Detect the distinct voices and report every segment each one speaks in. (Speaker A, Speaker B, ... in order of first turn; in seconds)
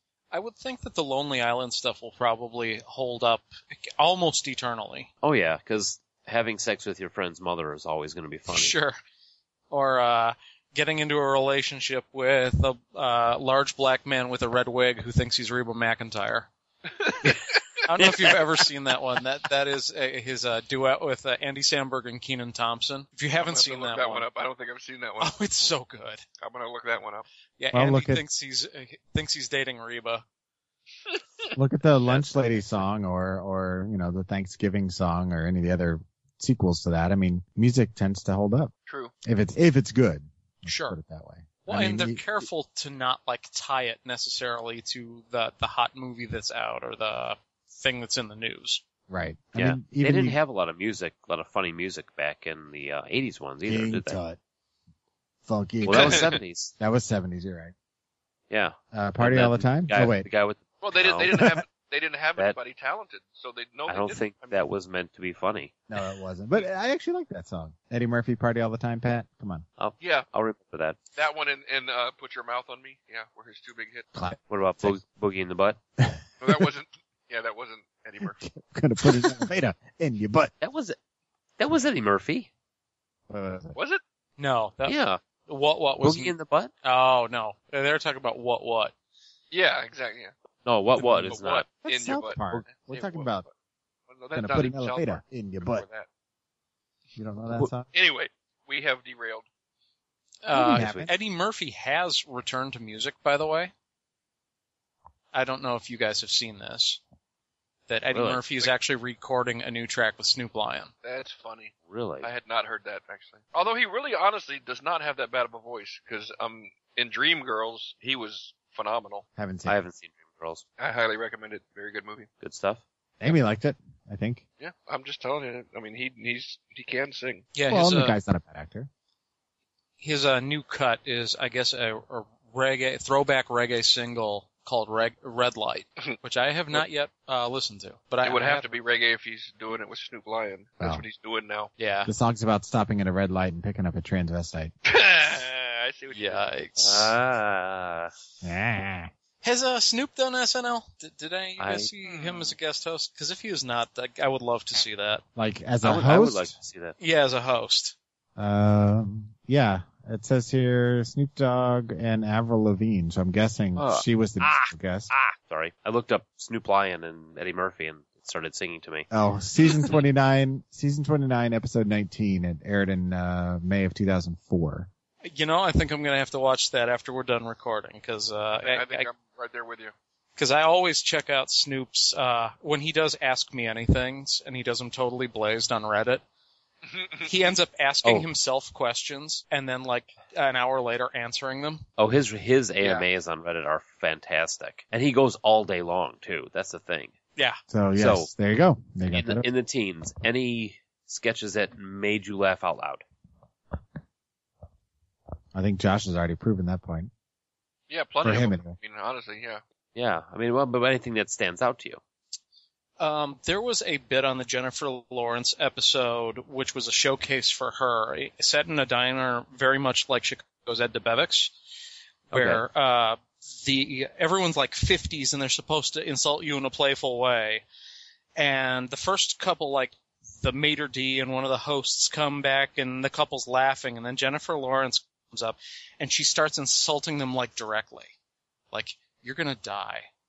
Speaker A: 0.3-5.1, 8.5-9.0, 9.7-16.5, 17.9-24.2, 25.2-26.2, 27.6-30.2, 40.6-41.0, 41.6-48.8, 84.4-88.9, 100.4-103.7, 105.3-107.0, 107.9-110.9, 127.5-128.2, 130.0-138.7, 141.8-142.1, 146.1-147.1, 149.4-155.2, 157.0-157.9, 175.2-179.1, 180.4-186.2, 187.2-191.8, 213.0-221.5, 222.3-227.6, 228.4-238.1, 238.7-240.1
Speaker B: 5.2-8.7, 18.0-18.4, 49.5-54.2, 55.8-56.7, 58.5-61.5, 63.9-65.7, 69.8-71.0, 74.5-75.8, 80.6-81.0, 81.6-82.5, 84.8-85.2, 86.0-86.7, 90.7-91.7, 100.8-101.0, 108.1-108.7, 111.9-112.3, 119.7-120.6, 122.4-122.8, 146.8-148.1, 151.6-151.9, 155.8-156.9, 163.8-169.1, 192.0-197.1, 197.9-198.3, 199.1-203.0, 209.9-212.0, 222.3-222.6
Speaker C: 17.0-17.3, 23.4-25.7, 26.4-27.2, 38.9-39.1, 55.9-56.4, 60.8-64.6, 70.0-70.3, 71.2-74.1, 76.4-78.4, 83.7-84.0, 89.5-90.3, 91.0-93.5, 94.1-96.1, 97.9-99.4, 111.0-119.2, 120.8-122.3, 124.6-127.5, 138.2-141.7, 144.8-146.4, 152.1-152.5, 178.6-179.9, 186.9-187.3, 192.8-193.1, 207.9-209.6
Speaker D: 27.7-28.2, 31.5-38.7, 39.2-42.2, 49.1-50.4, 53.6-54.4, 55.5-57.7, 58.9-60.3, 65.9-69.6, 74.1-75.0, 76.0-76.7, 78.2-80.5, 83.3-83.8, 91.8-93.5, 94.3-95.8, 97.2-97.9, 100.5-101.1, 119.4-119.8, 123.2-124.4, 127.7-128.9, 142.1-144.7, 148.4-149.1, 155.3-156.5, 158.4-165.1, 169.1-174.9, 197.7-199.4, 205.5-207.1, 208.2-208.8